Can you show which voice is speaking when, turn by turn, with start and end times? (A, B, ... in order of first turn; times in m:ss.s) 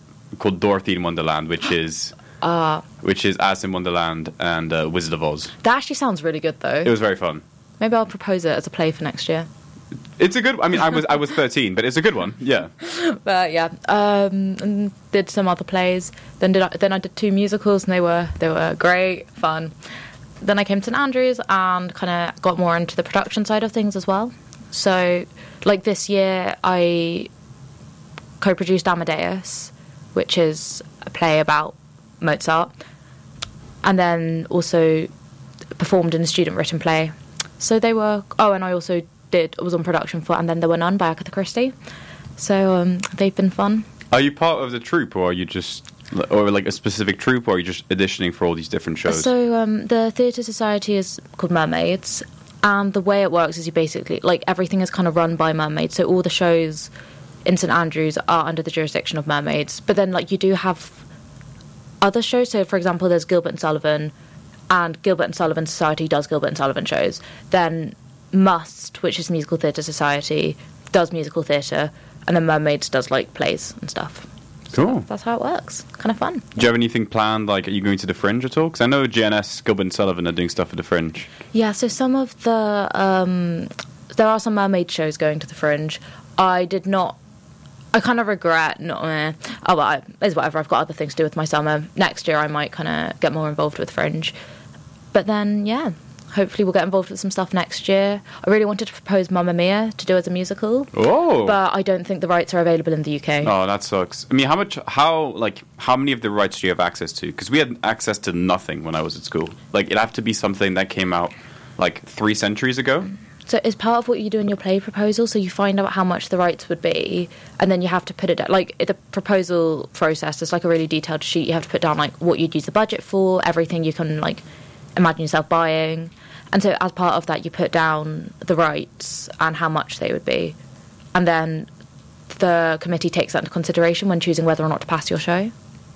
0:00.3-0:02.2 A
0:02.4-0:02.8 B
0:03.0-0:05.5 A
0:05.6-0:07.0 B
0:06.8-0:07.4 A
0:07.8-0:09.5 B
0:10.2-0:12.7 A
0:12.8-0:19.8 B
0:20.4-0:27.3 B
0:28.4-0:32.7 B
0:33.8-0:35.1 B
0:35.8-0:41.7 B
0:42.4-0:43.9 B
0:44.1-0:49.3 A
0:49.1-0:56.9 B
0:57.4-1:01.0 B
1:02.0-1:04.1 B
1:04.7-1:16.5 B
1:14.7-1:15.1 A
1:16.6-1:21.3 A
1:21.5-1:27.2 B
1:27.9-1:34.3 B
1:35.1-1:43.5 B
1:40.9-1:41.6 A
1:43.4-1:53.1 A
1:53.4-2:04.4 B
2:05.0-2:10.6 B
2:11.1-2:11.7 B
2:12.3-2:15.5 B